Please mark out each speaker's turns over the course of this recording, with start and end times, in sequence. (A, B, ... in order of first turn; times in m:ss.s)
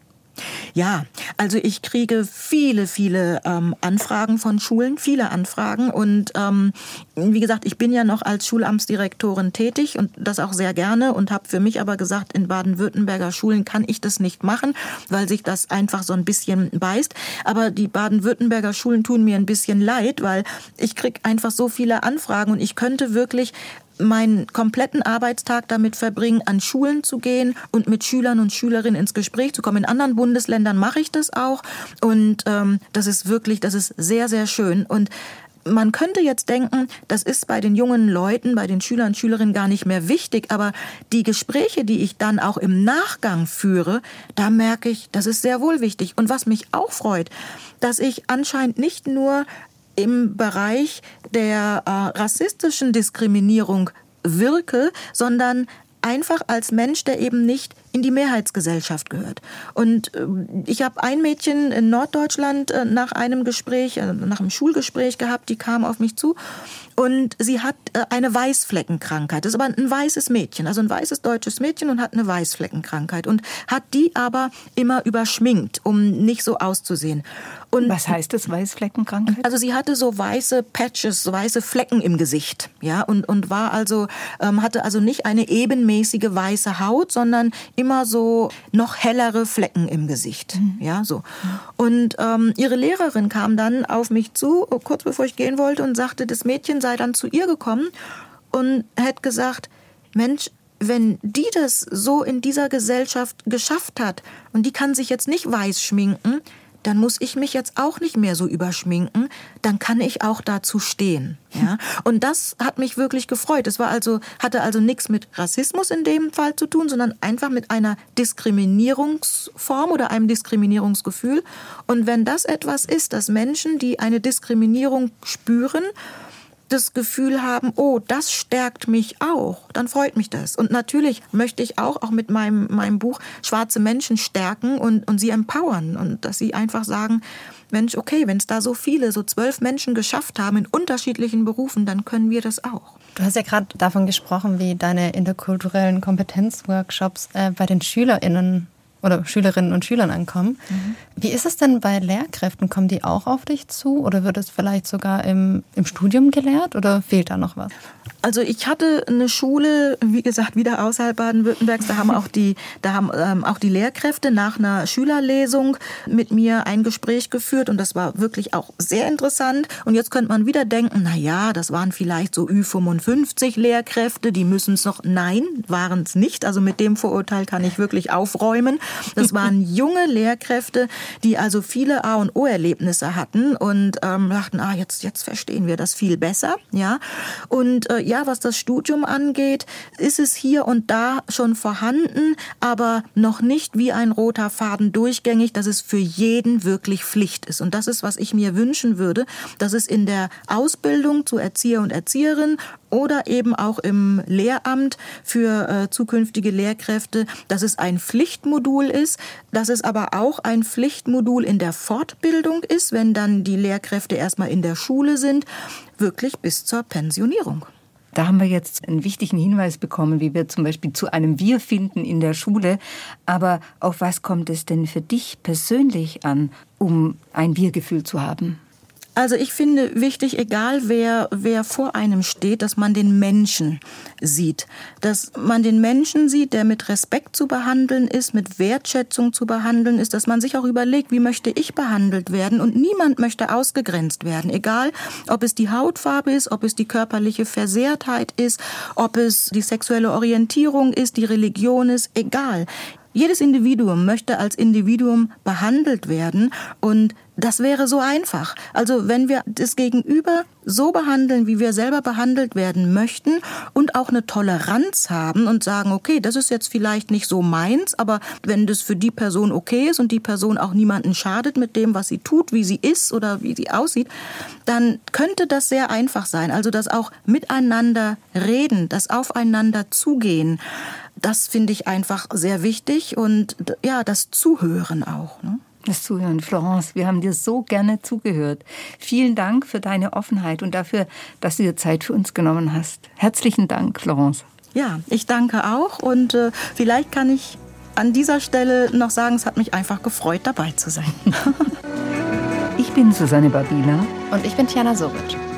0:00.8-0:35.1 A
0:35.6-1:06.4 A
1:07.0-1:18.0 A
1:17.8-1:19.4 B
1:19.3-1:37.9 A
1:38.5-2:05.9 A
2:06.7-2:23.0 A
2:23.2-2:30.6 C
2:30.7-2:31.0 A
2:31.2-2:37.7 C
2:38.2-3:37.7 A
3:38.2-3:48.6 B
3:49.2-4:34.1 A
4:34.7-4:40.6 A
4:41.2-4:45.6 A
4:45.8-4:54.4 B
4:54.7-5:01.7 A
5:02.8-5:04.1 B
5:04.3-5:05.4 C